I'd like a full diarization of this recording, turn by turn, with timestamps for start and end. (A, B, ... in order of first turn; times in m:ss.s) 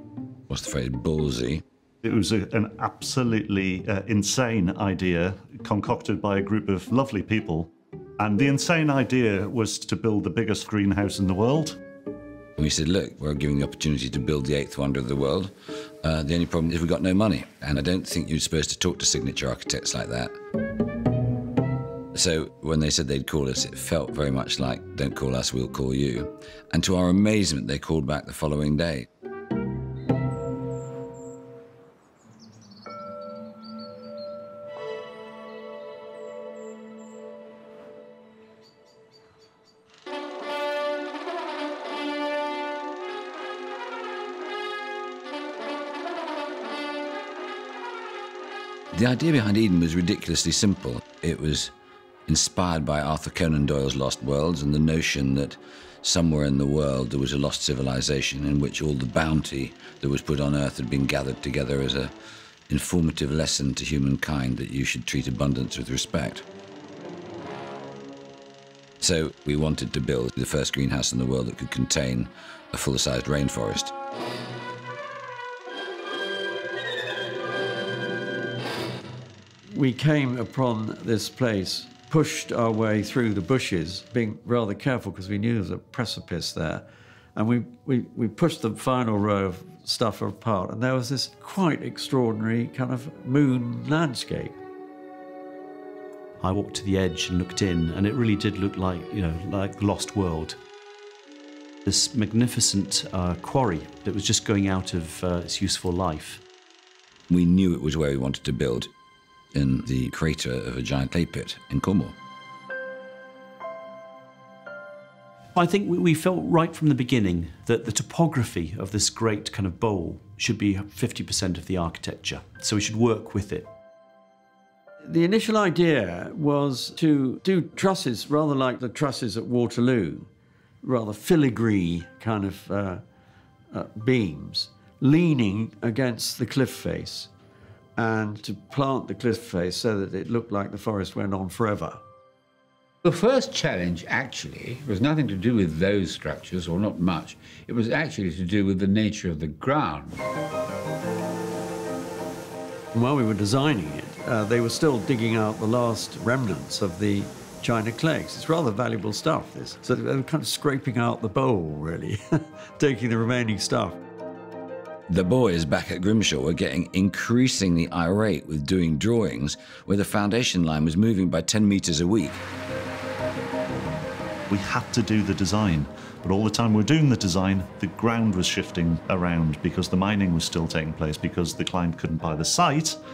0:00.5-0:01.6 A
0:02.0-0:11.8 B
0:12.6-0:20.3 A
0:22.1-0:29.1 A
0:48.9-0:51.7 A
0:52.3-1:02.1 A
1:02.7-1:06.4 A
1:09.0-1:13.9 A
1:19.7-1:34.6 C
1:36.4-1:40.6 D
1:41.8-1:46.4 D
1:47.3-1:48.9 A
1:49.5-1:52.2 A
1:55.5-2:03.7 D
2:05.0-2:10.3 C
2:10.8-2:13.0 C
2:13.7-2:17.3 C
2:18.0-2:22.0 C
2:23.0-2:30.2 E
2:32.9-2:44.0 C
2:45.1-2:52.4 A
2:54.5-3:03.0 B